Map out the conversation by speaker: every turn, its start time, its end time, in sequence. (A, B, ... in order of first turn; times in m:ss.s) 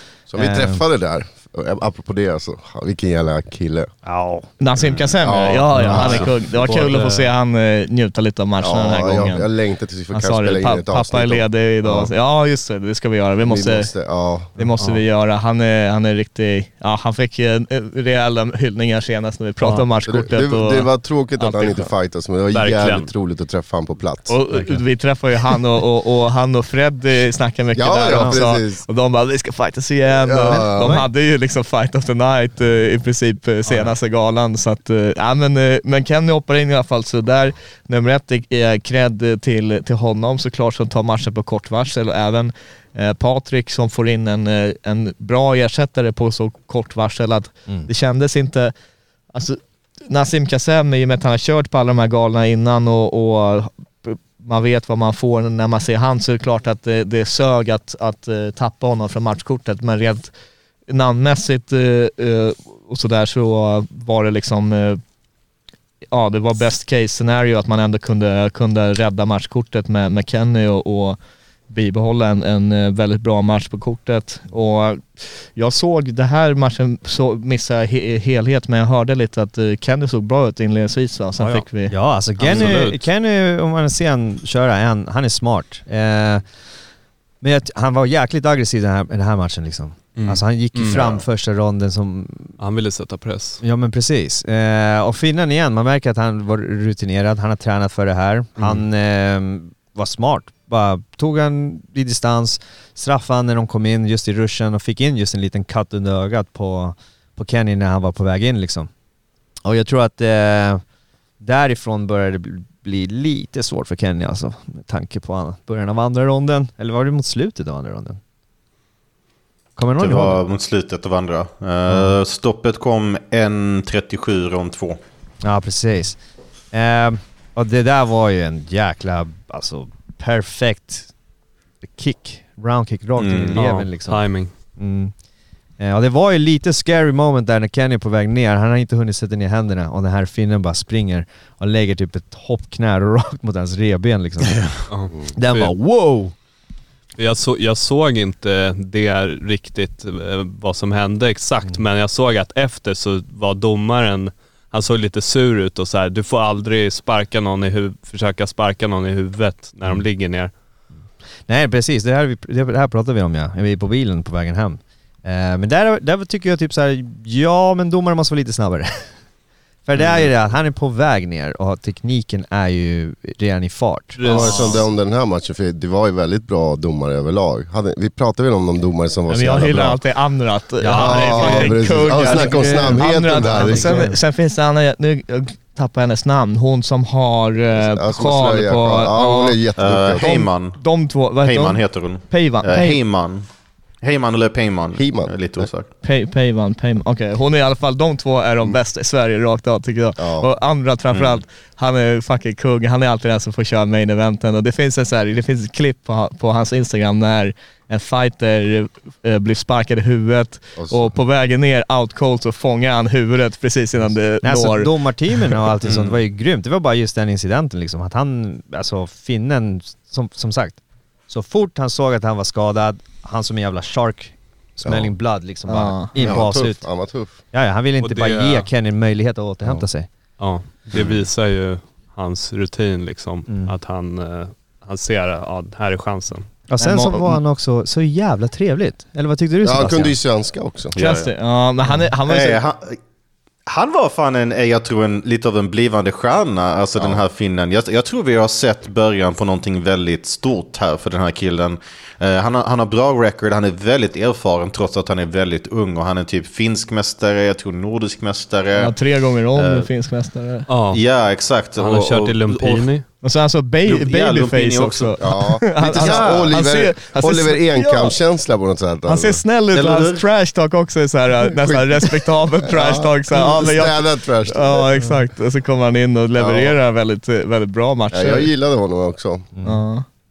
0:00.3-0:03.9 A
0:00.4-0:00.8 B
0:04.0-0:04.5 B
0:04.6-0:09.5 C
0:04.8-0:05.3 D
0:05.2-0:06.3 A
0:05.7-0:06.3 B
0:05.9-0:07.3 E
0:08.6-0:12.1 A
0:10.1-0:13.9 C
0:13.4-0:14.5 A
0:14.6-0:21.9 C
0:20.1-0:24.4 A
0:22.5-0:23.1 E
0:24.3-0:48.7 C
0:24.5-0:24.8 E
0:27.8-0:28.8 A
0:28.1-0:28.4 B
0:30.2-0:31.0 A
0:30.4-0:31.1 B
0:49.3-1:00.3 C
1:00.9-1:05.0 C
1:06.1-1:11.2 C
1:11.7-1:21.9 C
1:21.4-1:26.4 B
1:22.4-1:23.0 E
1:27.4-1:32.6 B
1:30.2-1:31.0 E
1:30.9-1:31.2 D
1:32.6-1:33.6 E
1:33.6-1:48.9 B
1:38.6-1:38.8 E
1:49.6-1:50.8 B
1:51.4-1:58.2 B
1:59.8-2:00.4 B
2:00.0-2:05.0 D
2:01.9-2:02.1 B
2:05.4-2:06.2 B
2:06.7-2:11.1 B
2:11.8-2:15.2 B
2:13.2-2:13.6 D
2:13.5-2:14.5 E
2:15.8-2:26.3 B
2:24.5-2:24.8 D
2:24.9-2:25.7 E
2:27.2-2:40.5 E
2:41.5-2:49.2 B
2:49.9-2:54.2 B
2:54.2-2:54.8 E
2:54.2-3:00.0 A
2:54.3-2:54.7 C
2:59.3-3:09.6 C
3:00.8-3:04.2 B
3:00.9-3:04.1 A
3:07.8-3:10.3 A
3:09.8-3:10.8 D
3:10.1-3:13.0 C
3:11.4-3:13.5 D
3:14.0-3:15.9 D
3:15.0-3:15.7 A
3:16.0-3:34.9 C
3:20.2-3:20.5 A
3:21.1-3:21.4 D
3:30.8-3:31.1 A
3:34.4-3:50.1 B
3:35.9-3:36.2 D
3:44.8-3:45.1 A
3:45.7-3:46.1 C
3:46.2-3:47.4 A
3:48.0-3:48.7 E
3:50.4-3:56.5 E
3:50.9-3:51.2 D
3:53.5-3:53.7 B
3:56.7-4:00.2 B
3:56.8-3:57.4 C
3:59.6-4:01.0 A
4:00.9-4:01.3 D
4:01.0-4:02.6 C
4:02.3-4:03.0 D
4:03.7-4:19.0 D
4:18.8-4:20.7 C
4:19.5-4:19.9 D
4:20.7-4:21.0 E
4:20.9-4:22.9 D
4:21.8-4:23.0 E
4:23.2-4:28.2 C
4:23.9-4:25.2 D
4:25.2-4:29.4 A
4:25.8-4:26.6 D
4:29.1-4:38.5 C
4:29.7-4:30.2 D
4:31.5-4:34.9 A
4:36.4-4:36.7 A
4:38.1-4:39.5 A
4:39.6-4:40.0 C